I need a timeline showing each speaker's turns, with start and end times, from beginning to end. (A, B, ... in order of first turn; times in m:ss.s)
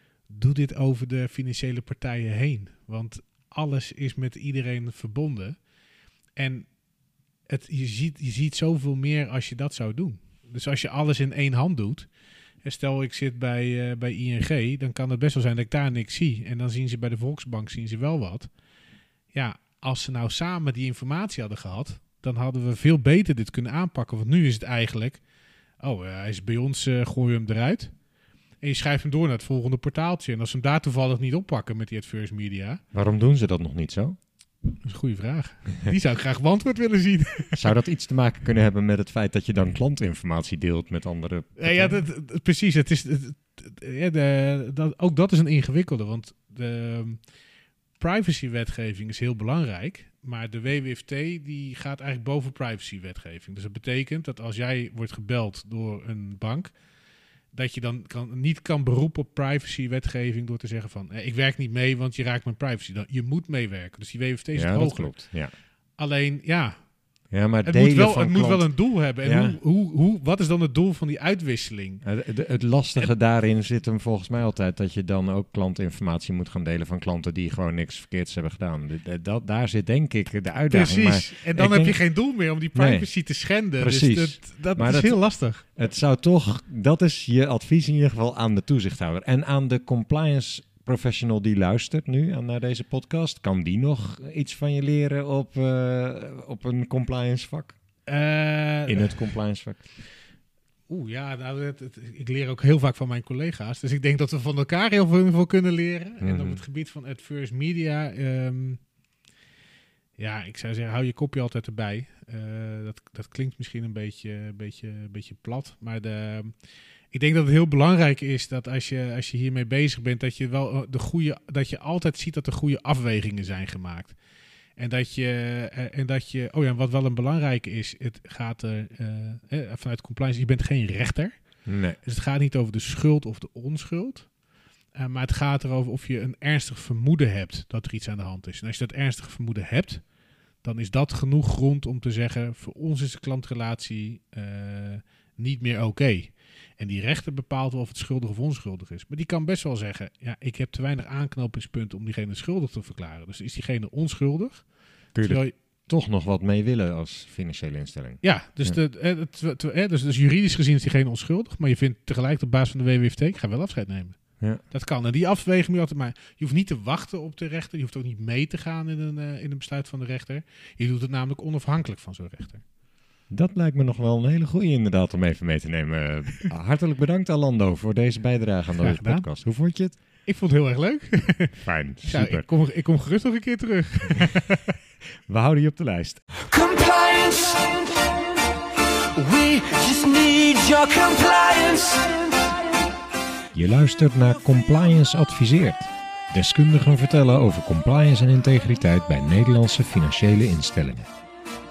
0:00.3-0:05.6 A
0:06.4-0:06.7 A
0:07.5-0:12.1 A
0:12.6-0:18.5 A
0:19.3-0:25.2 A
0:25.8-0:27.9 A
0:28.6-0:32.8 A
0:32.9-0:34.2 B
0:34.8-0:37.7 A
0:37.5-0:42.0 B
0:41.6-0:47.2 A
0:48.0-0:56.7 A
0:57.5-1:05.2 A
1:04.6-1:05.5 B
1:06.0-1:06.8 A
1:07.3-1:09.6 B
1:07.6-1:12.0 A
1:12.0-1:22.0 B
1:20.7-1:25.6 A
1:22.7-1:23.1 B
1:23.8-1:37.8 B
1:38.1-1:39.2 A
1:38.9-1:39.9 B
1:40.9-1:48.8 A
1:46.2-1:46.6 B
1:50.2-1:56.5 A
1:57.1-2:04.2 A
2:04.8-2:11.4 A
2:11.7-2:12.0 B
2:12.0-2:14.3 A
2:15.0-2:20.0 A
2:20.6-2:34.6 A
2:35.2-2:38.8 B
2:35.2-2:35.5 A
2:38.2-2:44.2 A
2:44.7-2:52.6 A
2:53.3-3:00.0 B
2:58.8-2:59.3 A
3:00.2-3:04.8 A
3:01.6-3:02.4 B
3:05.3-3:06.2 B
3:06.4-3:12.8 C
3:13.5-3:21.1 B